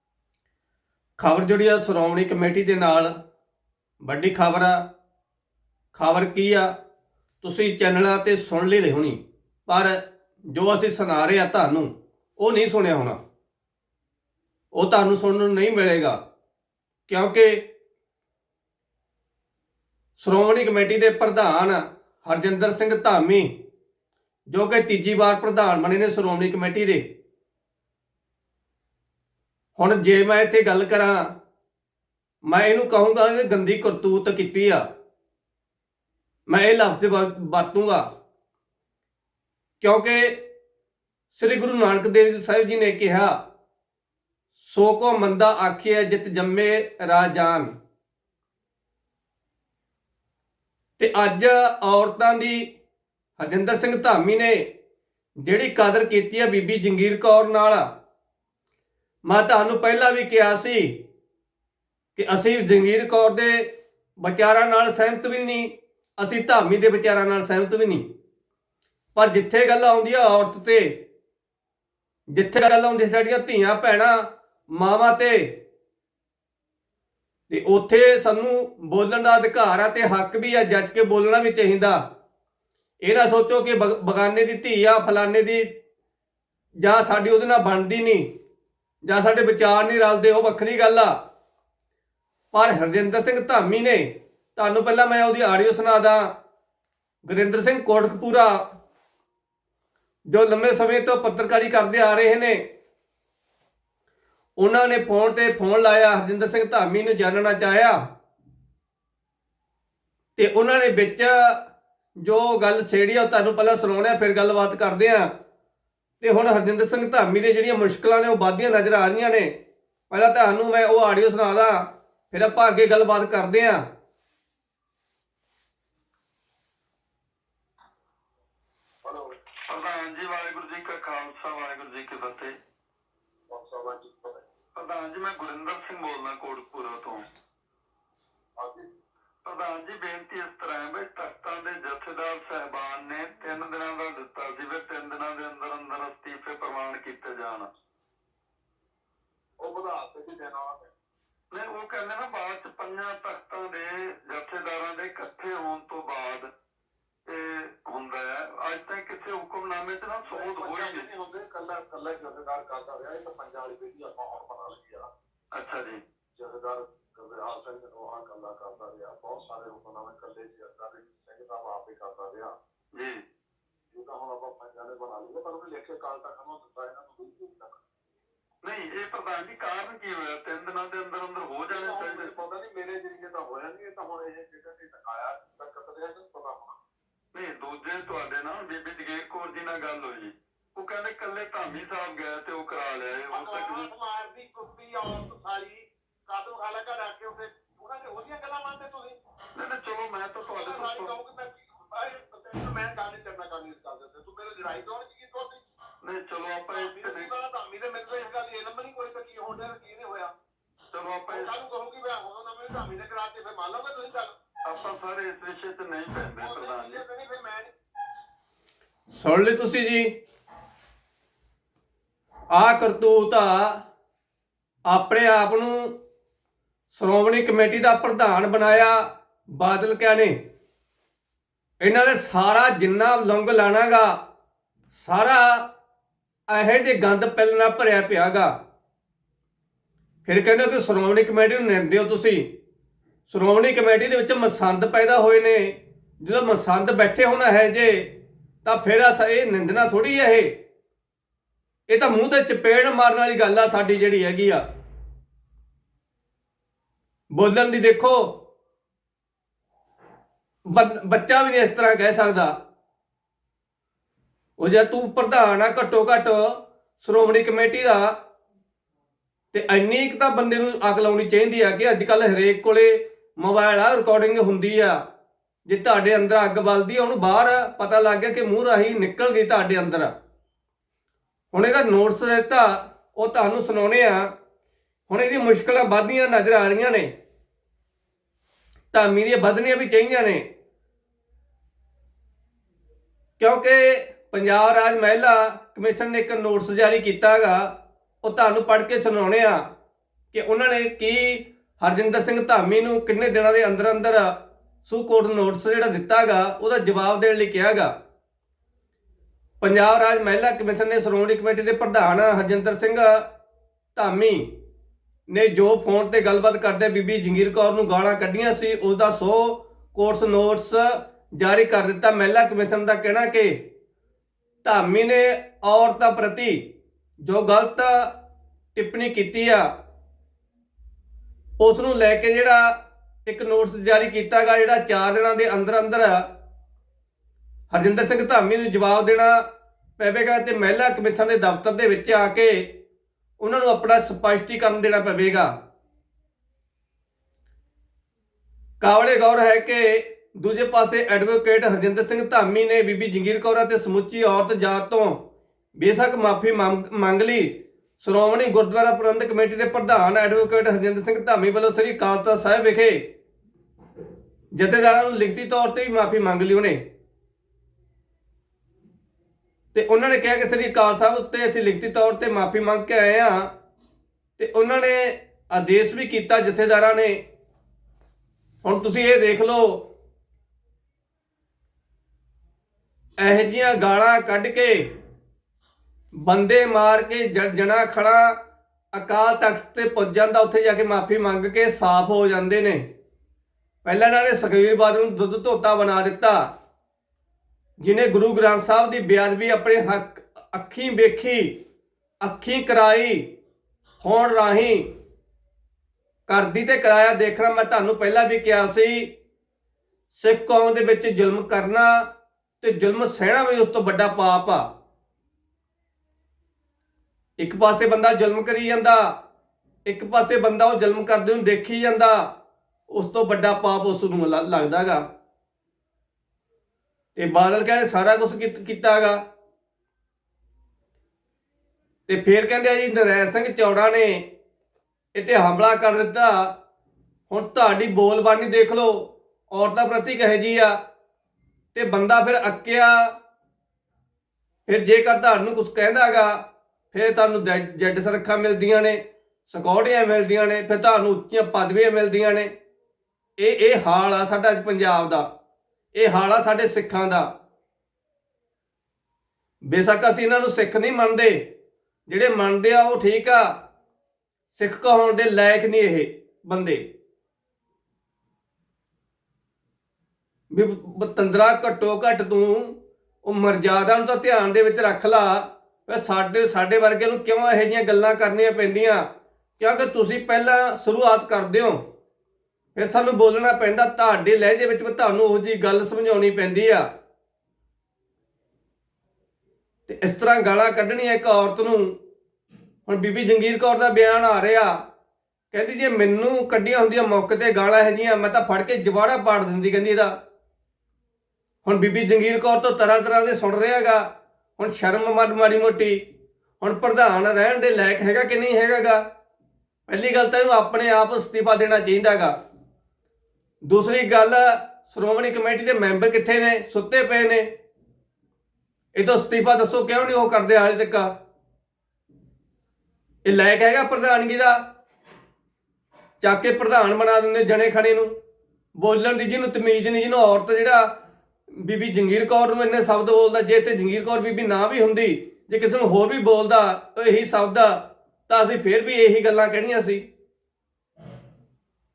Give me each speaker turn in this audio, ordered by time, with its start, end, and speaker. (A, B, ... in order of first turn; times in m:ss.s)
0:01.2-0:03.1 A
0:04.0-0:04.8 A
0:05.9-0:06.7 A
0:07.4-0:10.0 A
0:10.5-0:13.2 A
0:14.7-0:16.2 A
0:17.1-0:17.6 A
0:20.2-0:23.5 A
0:24.5-0:27.0 A
0:29.8-0:31.3 A
0:32.4-0:34.8 A
0:36.5-0:38.0 A
0:39.8-0:40.4 A
0:41.3-0:43.4 A
0:44.6-0:47.7 A
0:51.0-0:52.6 A
0:53.4-0:54.6 A
0:55.4-0:57.9 A
0:59.2-1:01.0 A
1:02.2-1:03.7 A
1:04.2-1:08.0 A
1:09.1-1:11.0 A
1:12.3-1:15.5 A
1:17.5-1:22.0 A
1:23.0-1:25.7 A
1:26.8-1:28.3 A
1:29.0-1:31.1 A
1:32.5-1:36.3 A
1:37.2-1:38.6 A
1:40.3-1:42.6 A
1:44.6-1:48.0 A
1:50.4-1:51.6 A
1:52.2-1:55.3 A
1:56.2-1:59.5 A
2:00.1-2:03.8 A
2:09.0-2:09.3 B
2:09.7-2:12.5 C
2:13.5-2:14.4 B
2:14.8-2:17.2 C
2:18.6-2:18.9 B
2:19.4-2:27.7 C
2:29.6-2:30.9 B
2:31.5-2:36.4 C
2:37.3-2:41.1 C
2:40.2-2:45.1 B
2:45.5-2:46.0 C
2:46.4-2:52.5 B
2:53.0-2:53.2 C
2:53.9-2:57.8 B
2:58.6-3:02.3 C
3:01.7-3:06.8 B
3:07.3-3:13.9 C
3:13.3-3:19.2 B
3:19.5-3:21.1 C
3:20.5-3:25.6 B
3:26.0-3:27.3 C
3:26.7-3:30.3 B
3:30.9-3:31.5 C
3:31.3-3:34.3 B
3:34.6-3:37.0 C
3:36.4-3:37.7 B
3:39.1-3:40.1 A
3:42.5-3:43.8 A
3:44.9-3:45.9 A
3:46.9-3:49.0 A
3:49.6-3:50.3 A
3:51.8-3:54.2 A
3:54.9-3:55.6 A
3:56.5-3:58.5 A
4:00.2-4:02.4 A
4:03.3-4:08.1 A
4:08.6-4:10.5 A
4:11.9-4:14.6 A
4:17.3-4:18.4 A
4:20.7-4:22.5 A
4:24.6-4:28.1 A
4:29.5-4:35.0 A
4:35.6-4:40.1 A
4:41.5-4:44.3 A
4:45.1-4:47.1 A
4:48.9-4:50.4 A
4:53.4-4:57.7 A
4:58.2-4:59.6 A
5:00.3-5:04.3 A
5:04.8-5:07.9 A
5:09.6-5:13.2 A
5:13.9-5:14.5 A
5:15.3-5:23.6 A
5:24.6-5:26.6 A
5:27.2-5:28.1 A
5:28.7-5:29.7 A
5:31.6-5:32.7 A
5:33.2-5:36.3 A
5:37.7-5:39.4 A
5:40.0-5:42.7 A
5:43.4-5:45.5 A
5:48.8-5:55.2 A
5:55.8-6:03.0 A
6:04.5-6:06.8 A
6:09.7-6:13.5 A
6:14.4-6:17.2 A
6:18.6-6:19.9 A
6:23.2-6:24.8 A
6:26.1-6:28.3 A
6:28.9-6:32.8 A
6:33.8-6:36.5 A
6:37.8-6:41.5 A
6:42.2-6:43.2 A
6:44.0-6:44.8 A
6:46.3-6:49.1 A
6:50.1-6:52.0 A
6:52.6-6:54.6 A
6:57.4-6:59.1 A
6:59.8-7:02.3 A
7:02.9-7:05.0 A
7:07.2-7:09.2 A
7:12.1-7:14.2 A
7:15.1-7:16.5 A
7:17.3-7:20.7 A
7:21.7-7:23.1 A
7:24.7-7:26.4 A
7:26.9-7:32.5 A
7:33.4-7:35.2 A
7:35.9-7:37.3 A
7:39.7-7:41.4 A
7:42.1-7:43.5 A
7:44.5-7:46.8 A
7:50.5-7:59.1 A
7:59.6-8:01.8 A
8:02.7-8:06.8 A
8:09.9-8:11.9 A
8:12.9-8:14.7 A
8:15.5-8:20.1 A
8:21.6-8:24.0 A
8:24.6-8:26.0 A
8:26.6-8:29.0 A
8:29.9-8:32.3 A
8:33.6-8:37.5 A
8:38.9-8:41.1 A
8:43.2-8:44.6 A
8:46.2-8:48.1 A
8:48.8-8:50.9 A
8:51.5-9:00.0 A